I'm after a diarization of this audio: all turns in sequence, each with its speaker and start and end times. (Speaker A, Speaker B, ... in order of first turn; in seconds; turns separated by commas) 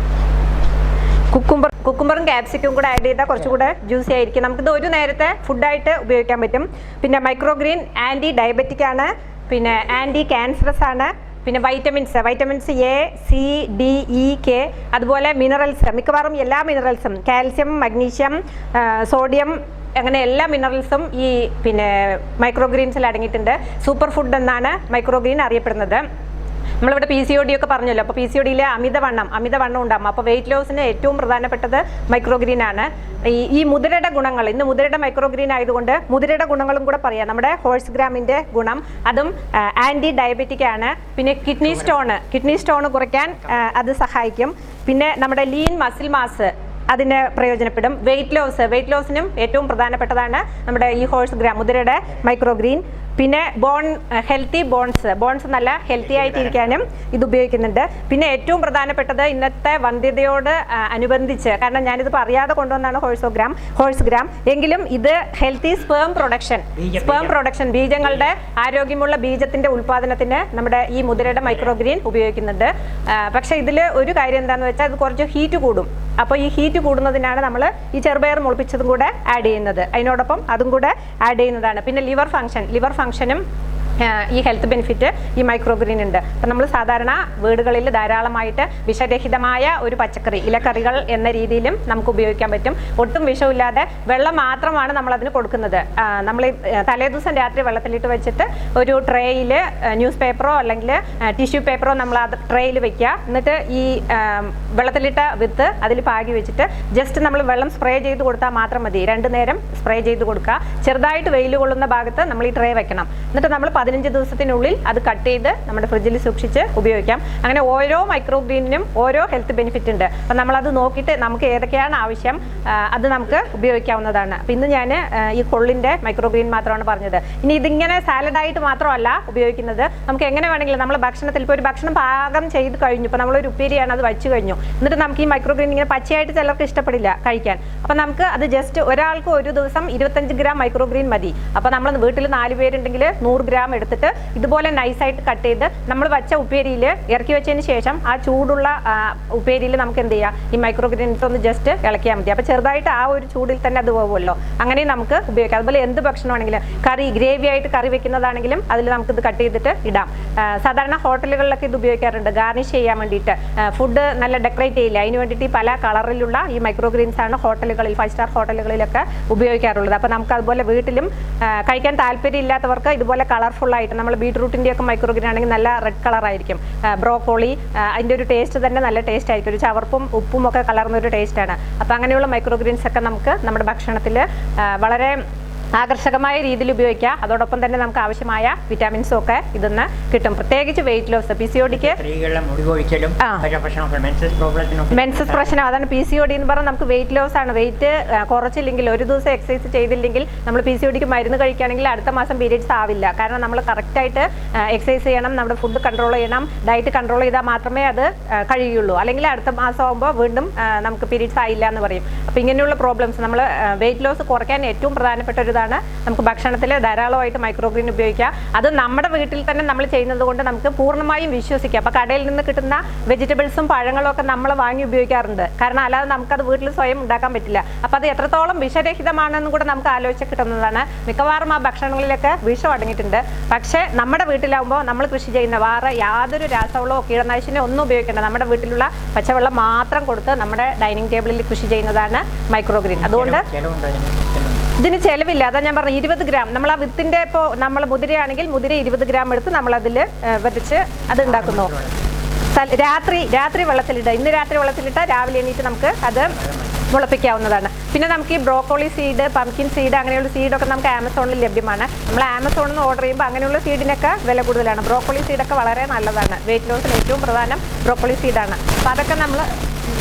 Speaker A: 1.3-26.0, Speaker A: 26.8-83.4, Speaker B: 56.1-56.8, Speaker B: 66.8-67.3, Speaker A: 84.0-185.2, Speaker A: 185.8-192.0, Speaker B: 191.7-195.6, Speaker A: 193.2-193.4, Speaker A: 194.9-243.4, Speaker B: 243.0-244.6, Speaker A: 244.8-251.7, Speaker B: 251.2-252.0, Speaker A: 252.5-256.4, Speaker B: 256.3-256.8, Speaker A: 256.9-269.5